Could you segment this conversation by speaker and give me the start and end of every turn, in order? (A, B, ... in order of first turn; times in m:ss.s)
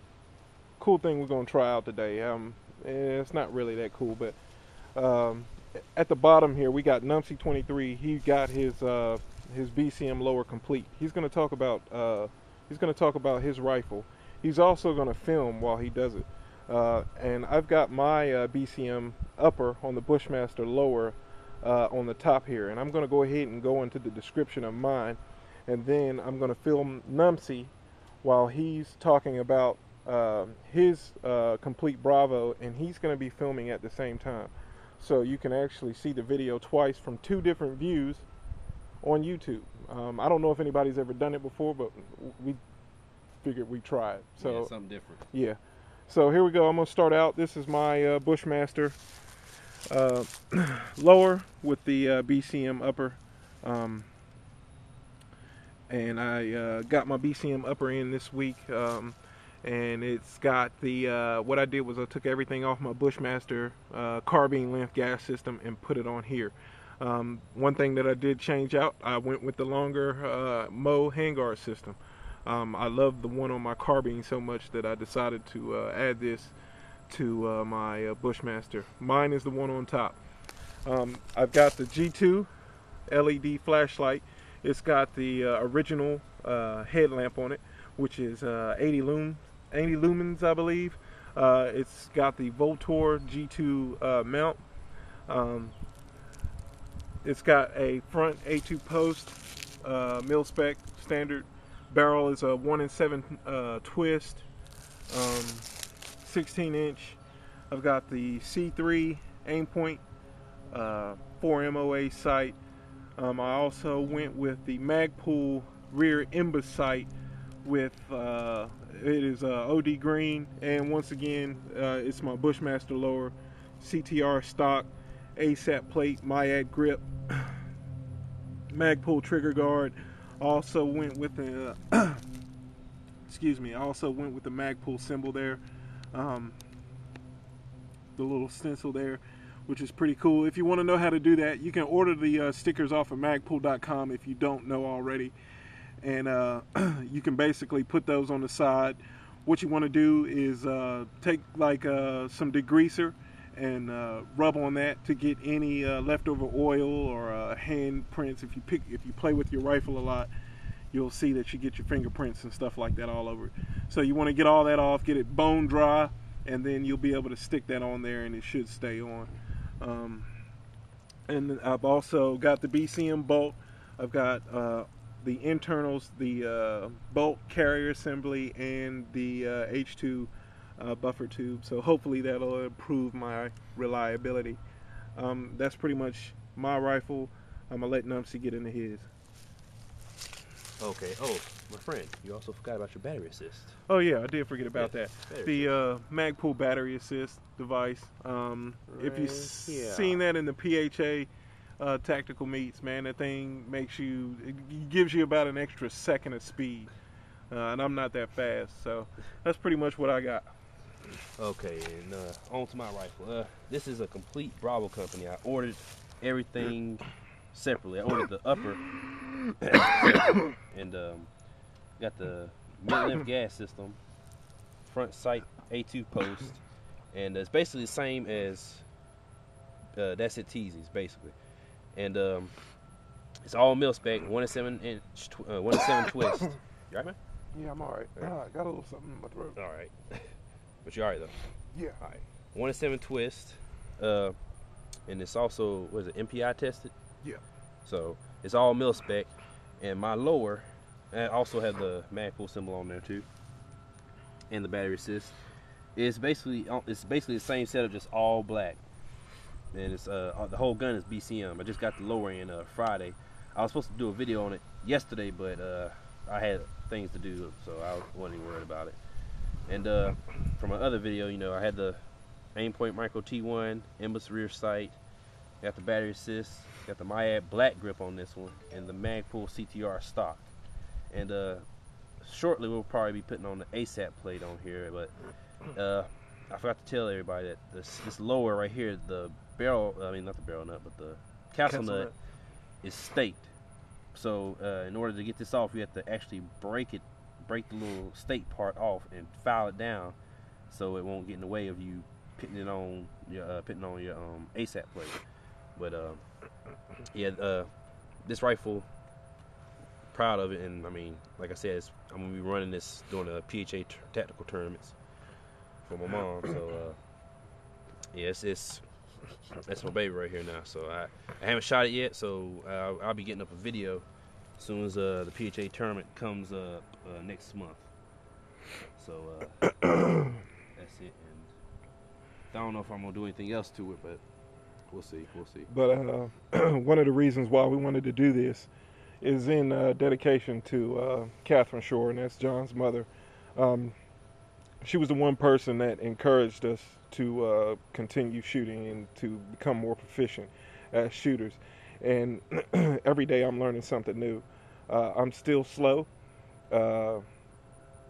0:00.8-0:04.4 A
0:05.0-0:27.7 A
0:28.2-0:38.3 A
0:39.0-0:42.6 A
0:43.4-0:44.7 A
0:44.4-0:45.2 B
0:45.3-0:49.0 A
0:49.9-0:54.1 A
0:55.9-1:16.5 A
1:17.1-1:20.2 A
1:20.8-1:22.5 A
1:23.1-1:34.6 A
1:35.3-1:35.7 A
1:37.2-1:44.4 A
1:45.1-1:45.7 A
1:46.2-1:50.0 A
1:50.7-1:52.6 A
1:53.2-1:57.1 A
1:57.6-2:07.6 A
2:08.7-2:12.2 A
2:13.3-2:15.6 A
2:16.1-2:16.6 A
2:18.1-2:25.4 A
2:26.0-2:40.3 A
2:40.9-2:50.3 A
2:51.3-3:04.6 A
3:05.2-3:09.1 A
3:10.8-3:13.8 B
3:13.9-3:26.9 A
3:14.8-3:15.8 B
3:18.9-3:20.2 B
3:27.5-3:30.5 A
3:31.4-3:38.8 B
3:39.6-3:41.3 B
3:42.0-3:44.0 B
3:44.8-3:46.6 B
3:47.1-3:48.8 B
3:50.0-3:51.4 B
3:52.0-3:52.5 B
3:53.4-3:57.2 B
3:57.5-3:59.6 A
3:59.6-4:01.3 B
4:02.0-4:04.4 B
4:05.1-4:06.9 B
4:07.8-4:13.3 B
4:14.5-4:15.4 B
4:16.0-4:18.8 B
4:19.7-4:29.0 B
4:29.7-4:32.0 B
4:32.6-4:35.0 B
4:35.6-4:40.5 B
4:41.1-4:41.6 B
4:42.2-4:45.1 B
4:45.7-4:52.1 B
4:51.7-4:52.1 A
4:52.8-4:53.5 B
4:54.1-5:00.2 B
5:00.7-5:05.2 B
5:05.8-5:06.2 B
5:07.1-5:07.7 B
5:08.2-5:08.9 B
5:10.1-5:15.0 B
5:15.9-5:17.0 B
5:18.1-5:18.8 B
5:19.6-5:24.0 B
5:24.6-5:27.9 B
5:29.0-5:29.6 B
5:30.8-5:31.5 B
5:32.5-5:34.2 B
5:34.9-5:35.7 B
5:35.7-5:38.7 A
5:39.2-5:44.0 A
5:44.8-5:56.1 A
5:56.7-5:57.2 A